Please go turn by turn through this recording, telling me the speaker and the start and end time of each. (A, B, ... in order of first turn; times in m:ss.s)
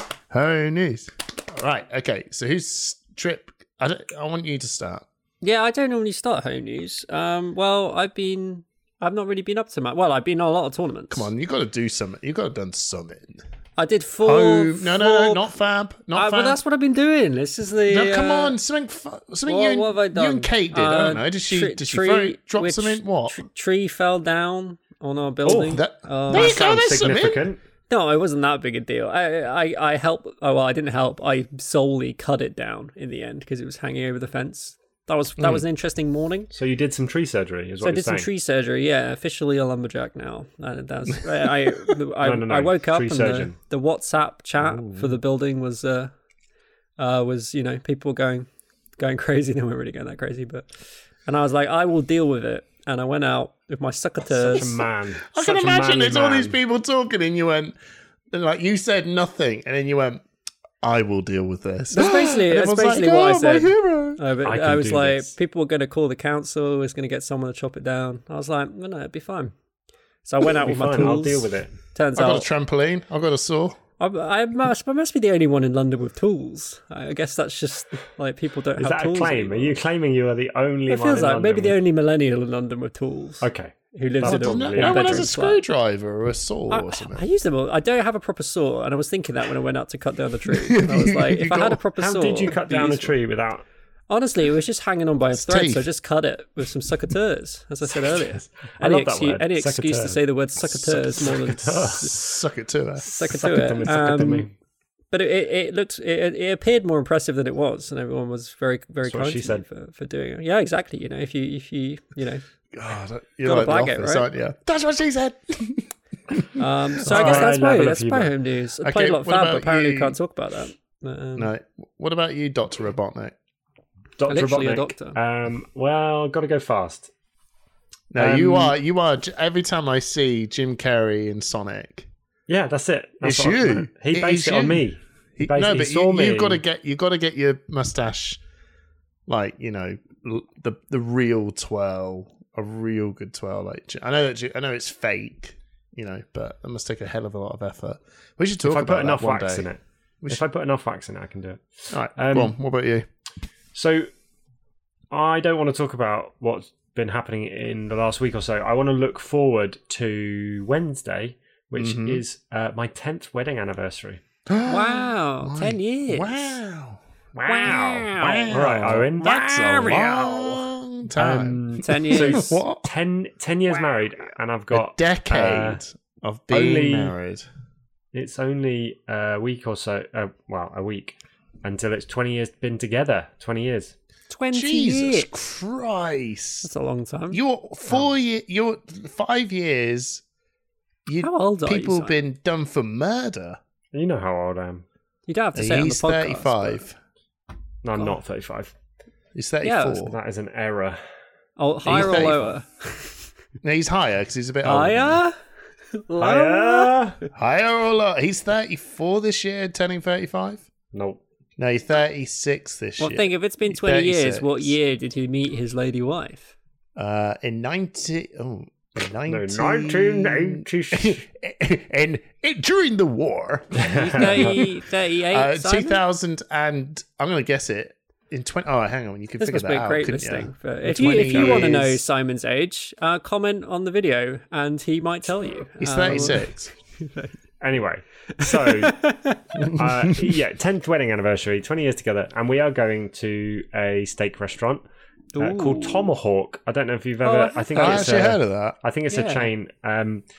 0:00.3-0:05.0 A
0:05.4-0:11.3 B
0:11.1-0:13.4 A
0:13.8-0:15.4 B
0:14.2-0:16.6 A
0:16.1-0:18.6 B
0:17.9-0:23.4 A
0:19.4-0:26.6 B
0:25.4-0:27.6 C
0:25.7-0:27.5 A
0:27.9-0:36.5 B
0:36.5-0:38.3 C
0:37.8-0:46.1 B
0:42.2-0:43.5 C
0:44.7-0:45.0 C
0:47.0-0:50.7 B
0:51.2-0:54.7 B
0:54.4-0:57.7 A
0:54.5-0:56.6 C
0:58.3-1:00.2 A
1:00.8-1:04.2 A
1:01.9-1:09.5 B
1:04.4-1:05.3 C
1:10.2-1:12.5 B
1:10.6-1:11.7 C
1:12.2-1:13.8 A
1:14.0-1:19.8 B
1:18.8-1:21.8 C
1:20.9-1:25.6 B
1:23.4-1:25.3 C
1:24.2-1:27.2 A
1:26.7-1:33.1 B
1:30.5-1:31.8 A
1:32.0-1:33.6 C
1:34.1-1:42.1 B
1:35.3-1:35.9 A
1:38.4-1:40.2 C
1:40.7-1:41.3 A
1:41.2-1:42.2 C
1:41.9-1:43.0 A
1:43.0-1:44.5 C
1:43.0-1:44.5 B
1:45.1-1:52.4 B
1:49.0-1:49.6 C
1:52.7-1:56.5 A
1:53.4-1:54.3 B
1:56.5-2:01.5 B
1:57.0-1:57.5 A
1:57.0-1:58.3 C
1:58.8-2:00.2 A
2:01.4-2:03.3 A
2:04.2-2:07.1 C
2:04.3-2:05.2 B
2:08.1-2:12.1 A
2:08.2-2:08.7 C
2:12.5-2:16.6 C
2:13.2-2:14.8 A
2:15.4-2:18.4 A
2:19.3-2:29.7 A
2:28.6-2:32.5 C
2:31.9-2:33.0 A
2:33.7-2:34.1 C
2:35.1-2:44.2 C
2:41.8-2:42.2 A
2:44.5-2:47.0 A
2:44.6-2:46.6 B
2:47.3-2:49.3 C
2:47.4-2:48.6 B
2:48.2-2:52.9 A
2:49.2-2:50.6 B
2:51.2-2:55.8 C
2:51.8-2:52.6 B
2:54.7-2:57.4 A
2:56.5-2:57.1 C
2:58.1-3:03.9 C
3:04.3-3:05.3 B
3:04.5-3:06.7 A
3:06.6-3:07.4 B
3:07.3-3:10.2 A
3:11.0-3:13.6 A
3:11.2-3:12.2 B
3:13.9-3:14.8 C
3:15.3-3:16.8 B
3:15.5-3:17.0 A
3:17.8-3:18.7 C
3:19.3-3:20.2 A
3:19.6-3:20.0 B
3:20.0-3:21.0 C
3:21.6-3:23.3 B
3:21.8-3:22.5 A
3:21.9-3:22.3 C
3:23.6-3:25.2 A
3:24.6-3:25.3 B
3:26.0-3:26.9 B
3:26.2-3:27.2 C
3:27.3-3:30.7 A
3:30.9-3:31.2 C
3:31.6-3:34.7 A
3:33.0-3:36.5 B
3:37.0-3:44.7 A
3:39.3-3:41.2 C
3:43.7-3:44.5 C
3:43.9-3:46.0 B
3:45.3-3:52.0 A
3:49.4-3:57.4 B
3:55.8-3:56.7 A
3:57.6-3:59.0 C
3:58.4-3:59.7 B
3:59.6-4:00.4 A
3:59.6-4:04.8 C
4:05.3-4:06.1 B
4:05.4-4:10.2 C
4:07.2-4:08.3 B
4:07.8-4:08.8 A
4:09.1-4:09.5 B